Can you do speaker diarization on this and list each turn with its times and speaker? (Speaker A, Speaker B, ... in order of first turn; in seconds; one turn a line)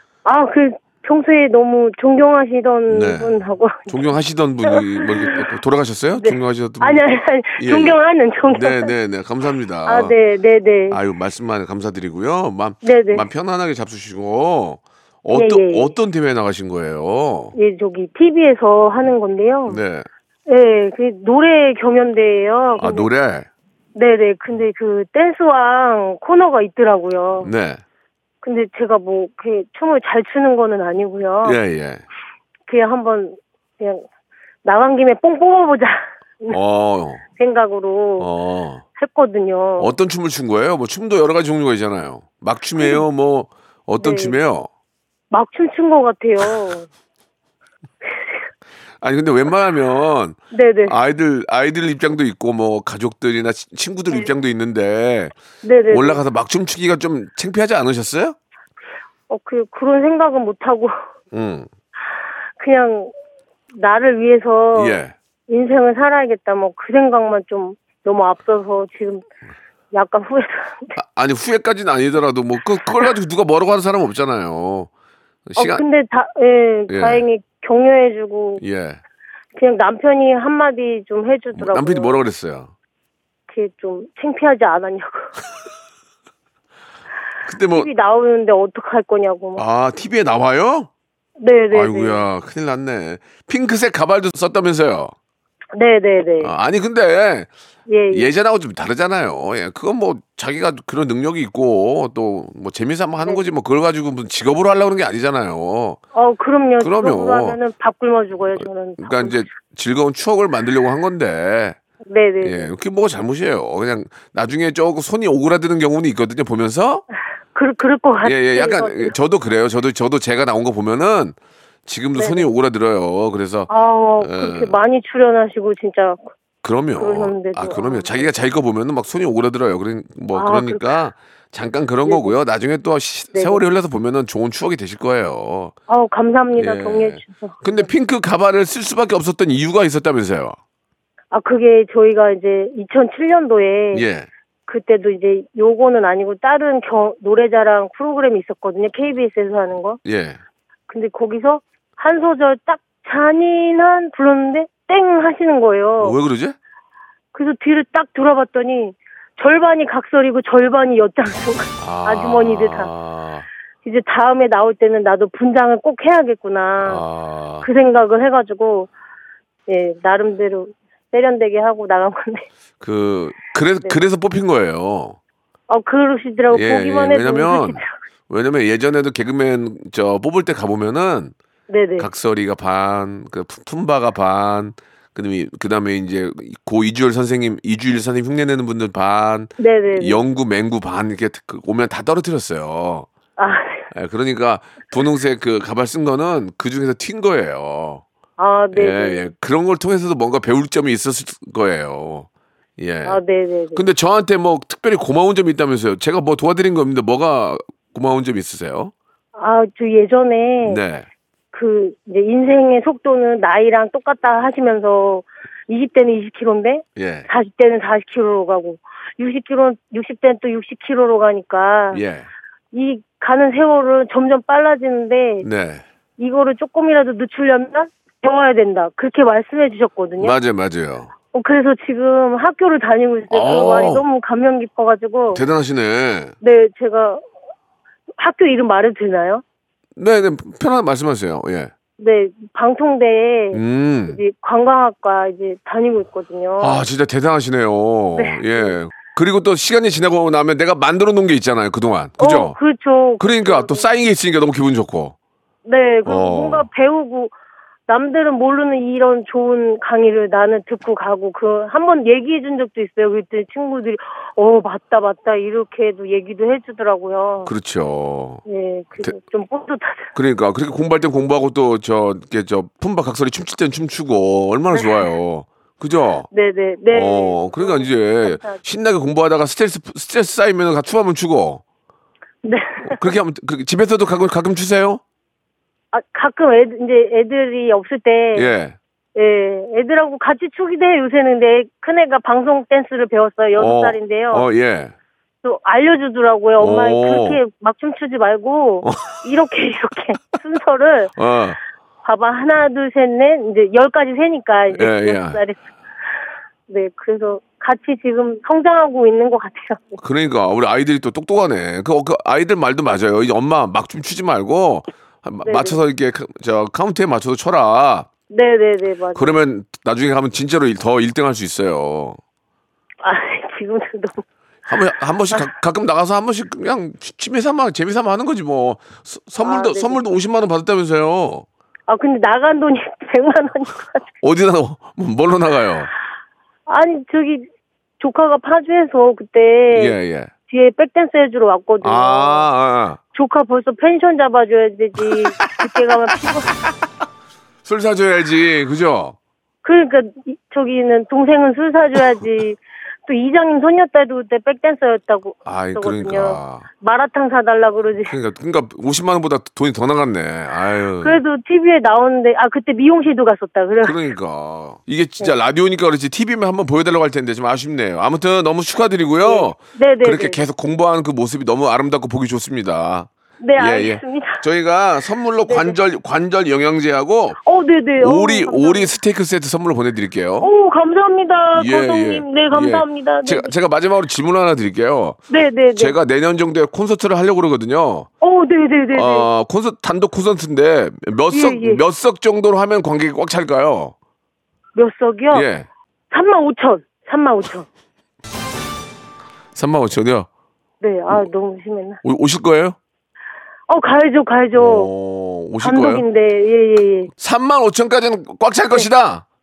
Speaker A: 0.2-4.0
Speaker B: 2.9-3.3
Speaker B: 3.9-7.0
Speaker A: 4.7-5.5
Speaker A: 6.1-8.9
Speaker B: 7.6-10.1
Speaker A: 9.8-11.0
Speaker B: 10.9-17.5
Speaker A: 12.8-13.3
Speaker A: 15.3-15.9
Speaker A: 17.6-19.8
Speaker B: 19.7-20.1
Speaker A: 20.5-23.1
Speaker B: 22.8-23.5
Speaker A: 23.9-27.5
Speaker B: 27.4-27.8
Speaker A: 28.4-31.6
Speaker B: 31.4-32.0
Speaker A: 32.7-34.0
Speaker A: 34.6-36.6
Speaker B: 36.5-37.2
Speaker A: 37.3-38.3
Speaker B: 38.2-38.8
Speaker A: 39.0-39.9
Speaker B: 39.8-44.7
Speaker A: 42.8-43.0
Speaker A: 44.0-44.4
Speaker A: 45.3-46.9
Speaker B: 49.0-55.4
Speaker A: 50.5-51.0
Speaker A: 55.6-56.2
Speaker B: 55.9-58.4
Speaker A: 59.3-60.9
Speaker B: 61.3-61.7
Speaker A: 62.6-63.1
Speaker A: 63.7-69.2
Speaker B: 64.7-65.1
Speaker A: 69.9-70.9
Speaker B: 71.0-74.9
Speaker B: 75.5-75.8
Speaker A: 75.6-78.6
Speaker B: 76.9-77.2
Speaker B: 78.6-79.0
Speaker A: 79.5-82.2
Speaker B: 81.5-82.7
Speaker A: 83.5-85.3
Speaker B: 87.5-87.9
Speaker A: 87.7-89.6
Speaker B: 89.5-90.9
Speaker A: 91.4-92.3
Speaker B: 91.7-95.1
Speaker A: 95.8-96.5
Speaker B: 96.4-97.5
Speaker A: 97.9-98.3
Speaker B: 98.1-106.0
Speaker A: 106.1-109.5
Speaker B: 106.8-107.6
Speaker B: 108.5-111.8
Speaker A: 112.1-112.7
Speaker B: 112.4-117.0
Speaker A: 117.5-119.2
Speaker B: 118.2-124.7
Speaker A: 122.2-122.5
Speaker A: 123.7-126.3
Speaker B: 126.6-135.7
Speaker A: 127.0-128.5
Speaker A: 130.3-130.9
Speaker A: 132.0-132.4
Speaker A: 133.3-133.6
Speaker A: 135.9-137.9
Speaker B: 136.6-140.6
Speaker A: 141.3-144.1
Speaker B: 143.9-144.3
Speaker A: 144.7-150.0
Speaker B: 150.0-150.4
Speaker A: 150.9-156.2
Speaker B: 156.0-156.6
Speaker A: 157.3-162.9
Speaker B: 161.8-163.5
Speaker A: 163.8-167.0
Speaker B: 166.8-167.7
Speaker A: 167.6-168.9
Speaker A: 169.7-172.4
Speaker B: 172.8-175.2
Speaker A: 175.7-177.9
Speaker B: 176.5-181.3
Speaker A: 181.7-182.1
Speaker B: 182.0-193.1
Speaker A: 189.6-190.2
Speaker A: 193.4-193.8
Speaker B: 193.9-198.0
Speaker A: 198.4-199.2
Speaker B: 198.7-202.3
Speaker B: 202.8-203.2
Speaker A: 203.0-203.8
Speaker B: 203.7-208.9
Speaker A: 209.3-210.8
Speaker B: 210.6-211.1
Speaker A: 211.5-222.0
Speaker B: 217.0-217.3
Speaker B: 221.9-222.3
Speaker A: 222.7-225.5
Speaker B: 225.4-225.8
Speaker A: 226.2-230.3
Speaker B: 230.2-231.1
Speaker A: 231.3-235.4
Speaker B: 233.3-234.0
Speaker B: 235.3-236.3
Speaker A: 236.4-237.2
Speaker A: 238.2-239.4
Speaker B: 240.0-241.7
Speaker A: 242.0-246.8
Speaker B: 243.5-244.2
Speaker B: 246.6-252.6
Speaker A: 248.1-248.8
Speaker A: 252.2-253.9
Speaker B: 253.2-255.2
Speaker A: 255.6-257.3
Speaker B: 256.0-256.7
Speaker A: 257.9-267.5
Speaker B: 267.4-268.4
Speaker A: 268.4-270.1
Speaker B: 270.1-276.3
Speaker A: 274.7-275.1
Speaker A: 276.3-278.6
Speaker B: 276.9-281.6
Speaker A: 282.4-283.0
Speaker B: 282.8-285.0
Speaker A: 285.9-288.5
Speaker B: 288.3-288.8
Speaker A: 289.1-294.5
Speaker B: 293.6-294.9
Speaker A: 295.4-301.1
Speaker B: 296.6-297.4
Speaker B: 301.1-301.6
Speaker A: 302.0-305.6
Speaker B: 304.7-305.4
Speaker A: 306.7-310.0
Speaker B: 310.0-318.1
Speaker A: 315.4-315.8
Speaker A: 318.3-319.4
Speaker B: 319.1-322.2
Speaker A: 323.0-324.2
Speaker B: 324.7-331.4
Speaker A: 329.4-330.1
Speaker A: 331.9-334.0
Speaker B: 334.2-335.9
Speaker A: 336.7-337.5
Speaker A: 338.0-339.9
Speaker B: 339.7-340.3
Speaker A: 340.5-342.5
Speaker B: 341.8-343.0
Speaker A: 343.1-346.5
Speaker B: 345.1-345.9
Speaker B: 347.6-349.1
Speaker A: 349.6-358.1
Speaker B: 355.4-356.7
Speaker B: 358.0-361.2
Speaker A: 361.0-364.0
Speaker B: 363.8-377.4
Speaker A: 369.2-370.4
Speaker A: 373.4-374.4
Speaker A: 375.5-375.8
Speaker A: 377.4-378.9
Speaker B: 378.0-380.5
Speaker A: 380.4-383.5
Speaker B: 381.5-385.2
Speaker A: 385.3-385.9
Speaker B: 385.7-388.1
Speaker A: 388.2-389.3
Speaker B: 388.9-393.9
Speaker A: 391.3-391.8
Speaker A: 394.7-395.4
Speaker B: 395.3-395.7
Speaker A: 396.1-397.7
Speaker B: 399.5-400.3
Speaker A: 400.8-402.0
Speaker B: 402.0-402.8
Speaker A: 403.7-404.9
Speaker B: 404.5-406.0
Speaker A: 405.6-407.1
Speaker B: 407.2-409.2